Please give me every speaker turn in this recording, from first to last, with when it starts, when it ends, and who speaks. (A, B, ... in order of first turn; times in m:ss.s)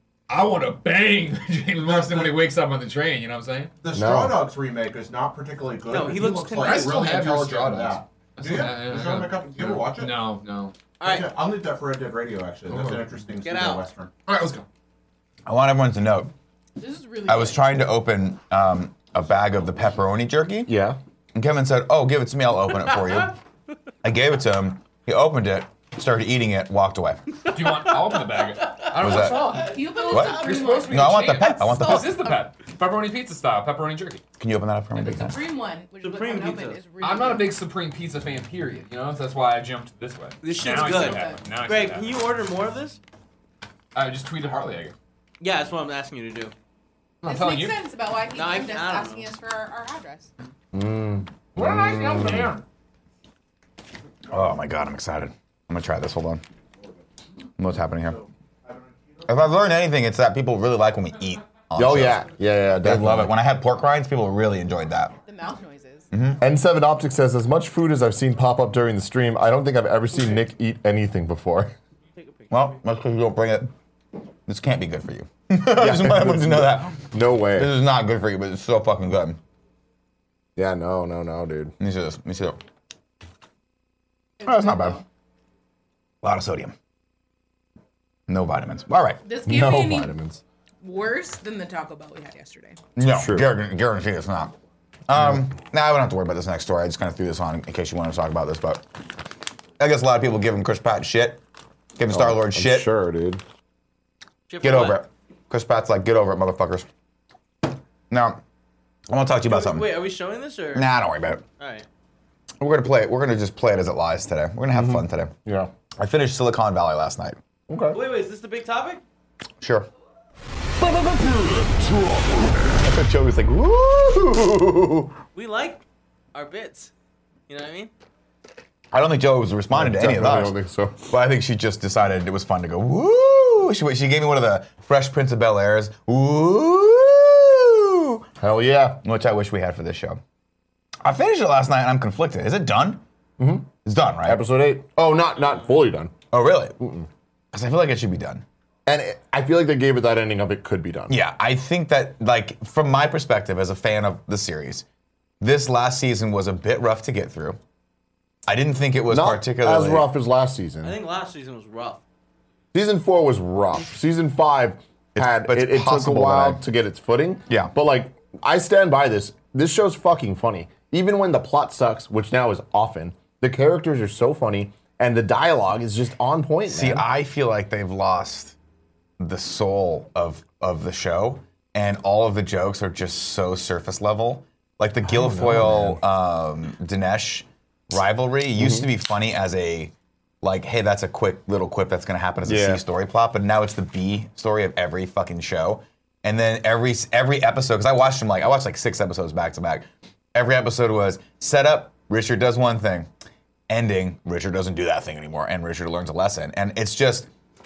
0:00.3-0:03.7 A
0:01.8-0:02.3 B
0:03.8-0:10.3 B
0:03.9-0:04.4 C
0:05.9-0:07.4 D
0:06.6-0:10.7 A
0:11.0-0:11.3 D
0:11.0-0:14.1 B
0:12.7-0:13.0 A
0:13.4-0:13.8 D
0:14.3-0:14.6 A
0:15.5-0:16.3 E
0:16.8-0:17.9 F
0:17.3-0:20.7 E
0:20.7-0:21.0 C
0:21.4-0:23.4 E
0:24.0-0:27.3 E
0:27.5-0:34.2 A
0:27.6-0:30.1 D
0:29.0-0:29.5 E
0:29.4-0:32.4 F
0:30.1-0:32.3 E
0:34.4-0:35.4 E
0:35.0-0:37.6 F
0:36.0-0:36.9 D
0:37.0-0:42.1 A
0:40.4-0:43.0 D
0:40.8-0:41.4 F
0:44.0-0:45.0 A
0:45.4-0:46.5 D
0:47.2-0:47.8 A
0:47.2-0:50.3 F
0:48.3-0:49.3 D
0:50.7-0:52.5 C
0:51.6-0:52.6 A
0:54.3-0:56.4 E
0:57.6-0:58.2 E
0:58.0-0:59.5 B
0:59.3-1:02.2 E
1:01.8-1:03.3 C
1:02.8-1:05.2 E
1:05.3-1:06.1 F
1:06.1-1:06.4 E
1:06.4-1:11.7 C
1:12.1-1:12.8 D
1:12.5-1:13.7 E
1:14.5-1:19.4 E
1:15.7-1:17.7 C
1:20.6-1:21.7 C
1:21.8-1:22.6 E
1:24.4-1:25.0 E
1:24.4-1:25.0 F
1:26.2-1:26.8 E
1:28.3-1:29.2 E
1:29.2-1:30.2 F
1:29.4-1:30.4 C
1:30.8-1:32.8 F
1:33.0-1:34.6 E
1:33.0-1:33.5 C
1:35.1-1:38.8 E
1:39.8-1:41.4 E
1:42.0-1:42.9 E
1:42.1-1:43.4 C
1:44.5-1:45.0 D
1:44.6-1:46.9 E
1:48.1-1:48.4 E
1:49.1-1:49.9 E
1:49.5-1:50.9 D
1:50.7-1:51.4 E
1:51.6-1:51.9 D
1:52.6-1:55.3 E
1:54.7-1:55.7 C
1:56.0-1:57.4 E
1:57.7-1:58.0 C
1:57.9-1:59.0 D
1:59.6-1:59.9 E
2:00.8-2:02.6 C
2:02.6-2:05.1 E
2:05.4-2:05.8 D
2:06.3-2:06.9 D
2:07.5-2:07.9 D
2:08.9-2:10.6 E
2:09.7-2:11.1 C
2:11.1-2:18.2 E
2:18.4-2:19.0 C
2:19.0-2:20.2 E
2:21.0-2:23.0 E
2:23.4-2:23.7 C
2:23.8-2:24.4 E
2:24.2-2:26.1 C
2:26.3-2:26.8 E
2:26.8-2:27.1 C
2:27.5-2:28.4 E
2:28.9-2:31.2 C
2:31.1-2:34.8 E
2:35.4-2:37.6 E
2:38.5-2:40.1 E
2:39.1-2:41.0 C
2:40.8-2:42.0 D
2:42.7-2:57.1 C
2:45.2-2:46.6 E
2:56.7-2:58.6 E
2:59.2-3:23.1 E
3:05.0-3:06.0 C
3:08.6-3:08.9 C
3:12.4-3:12.8 C
3:23.7-3:27.3 E